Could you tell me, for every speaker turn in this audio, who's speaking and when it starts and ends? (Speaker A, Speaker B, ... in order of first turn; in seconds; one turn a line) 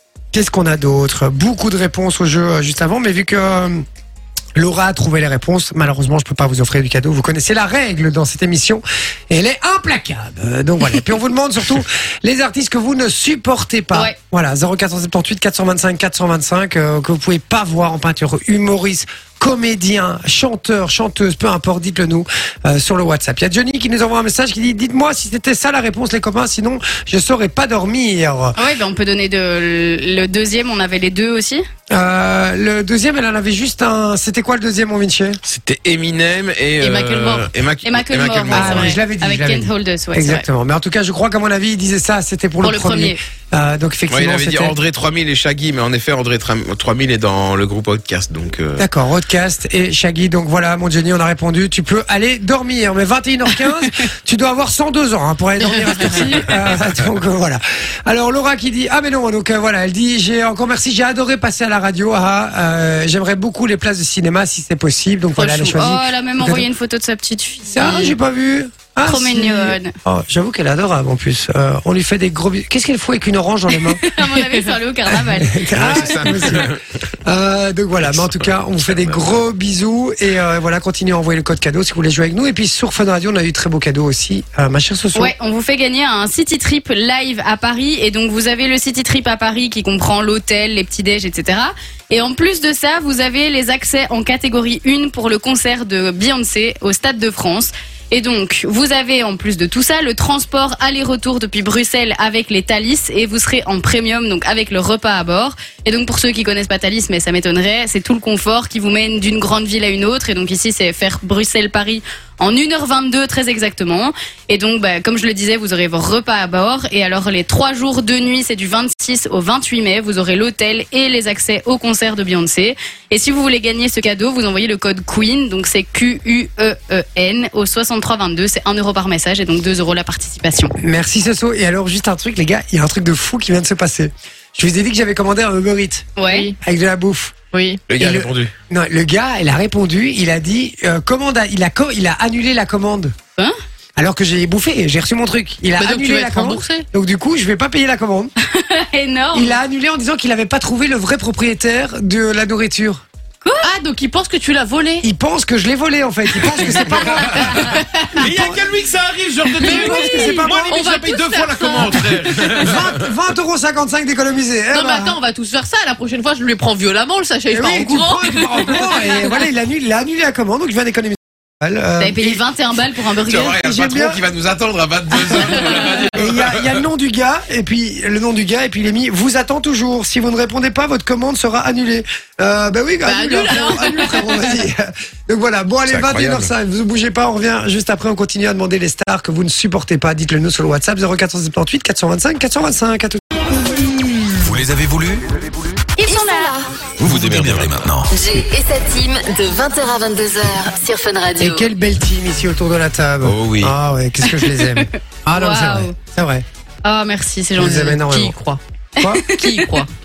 Speaker A: 0.3-3.8
Speaker A: 4.5-28.6
Speaker B: 28.5-31.6
Speaker A: 31.9-35.4
Speaker C: 35.4-39.0
Speaker B: 37.0-40.5
Speaker A: 38.5-44.8
Speaker B: 42.6-43.2
Speaker C: 44.1-48.9
Speaker A: 48.8-66.7
Speaker D: 55.6-56.2
Speaker B: 65.3-68.2
Speaker A: 67.7-74.0
Speaker B: 69.0-69.9
Speaker B: 74.0-76.0
Speaker A: 75.3-76.7
Speaker C: 75.7-76.8
Speaker A: 77.2-85.3
Speaker C: 78.1-79.3
Speaker B: 85.1-130.7
Speaker A: 130.8-137.3
Speaker B: 136.2-136.5
Speaker D: 136.2-136.6
Speaker D: 137.5-137.8
Speaker C: 137.9-138.5
Speaker A: 138.0-143.1
Speaker A: 144.0-148.3
Speaker D: 145.8-146.9
Speaker B: 148.4-149.6
Speaker A: 149.3-153.0
Speaker D: 153.6-155.1
Speaker A: 155.0-158.6
Speaker C: 157.1-157.5
Speaker C: 158.2-163.1
Speaker A: 159.6-160.8
Speaker D: 159.7-162.5
Speaker B: 159.7-160.4
Speaker A: 162.5-165.2
Speaker D: 164.7-169.2
Speaker A: 167.5-172.4
Speaker B: 172.0-173.6
Speaker C: 173.3-176.8
Speaker A: 173.6-174.2
Speaker A: 175.3-193.2
Speaker D: 183.0-184.5
Speaker C: 185.9-186.5
Speaker E: 194.4-195.4
Speaker B: 196.0-196.6
Speaker F: 196.0-196.7
Speaker E: 197.0-198.1
Speaker C: 197.1-197.8
Speaker F: 198.1-201.7
Speaker A: 201.4-206.4
Speaker C: 203.2-203.7
Speaker B: 204.2-205.9
Speaker B: 206.8-207.9
Speaker A: 207.6-208.3
Speaker D: 207.6-208.6
Speaker A: 209.0-209.2
Speaker B: 209.0-209.7
Speaker D: 209.3-209.9